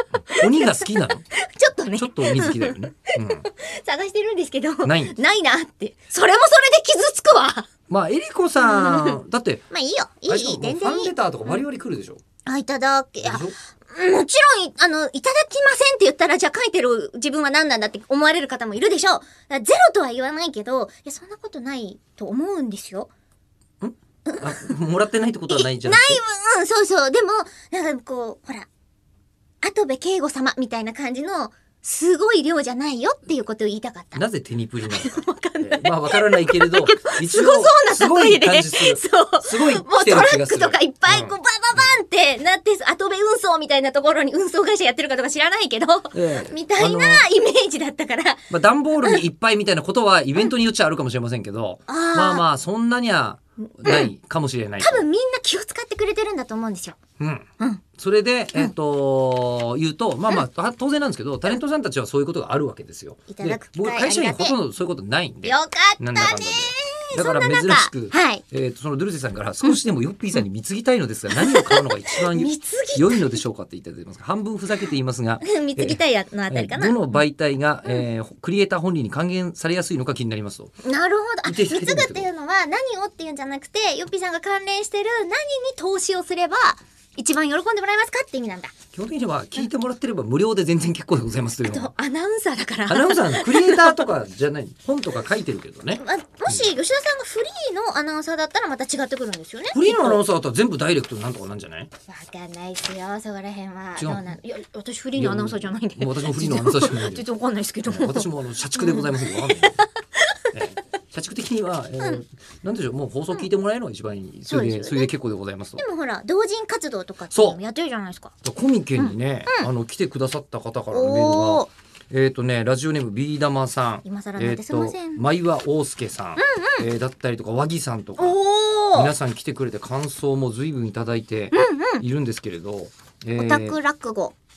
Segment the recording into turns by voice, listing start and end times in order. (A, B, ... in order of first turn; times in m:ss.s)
0:00.3-0:07.7 A
0:00.3-0:01.2 B
0:02.0-0:03.4 B
0:04.8-0:05.1 B
0:07.9-0:09.6 B
0:08.6-0:09.2 A
0:09.7-0:11.6 A
0:10.3-0:12.2 B
0:12.4-0:23.1 A
0:13.2-0:13.6 B
0:23.8-0:26.2 B
0:24.3-0:24.6 A
0:25.5-0:28.7 A
0:29.6-0:34.2 A
0:34.1-0:41.4 B
0:34.8-0:48.5 A
0:46.1-0:47.2 B
0:48.5-0:55.0 B
0:51.9-0:52.4 A
0:53.8-0:54.1 A
0:54.8-0:57.0 A
0:57.2-0:57.5 B
0:58.0-1:20.7 B
1:03.3-1:04.6 A
1:05.4-1:08.4 A
1:11.3-1:13.4 A
1:15.4-1:17.2 A
1:20.8-1:28.7 A
1:21.4-1:22.3 B
1:28.9-1:31.9 B
1:31.6-1:34.0 A
1:32.9-1:36.7 B
1:35.9-1:40.2 A
1:39.7-1:41.9 B
1:42.1-1:50.5 A
1:44.0-1:44.3 B
1:45.2-1:47.2 B
1:47.8-1:49.8 B
1:50.5-1:55.8 B
1:54.5-1:55.1 A
1:55.8-1:58.3 A
1:57.3-1:57.6 B
1:58.4-2:08.4 B
1:59.0-1:59.7 A
2:00.9-2:01.7 A
2:04.0-2:05.2 A
2:06.4-2:06.9 A
2:08.2-2:09.1 A
2:08.9-2:13.8 B
2:11.5-2:12.0 A
2:13.3-2:14.3 A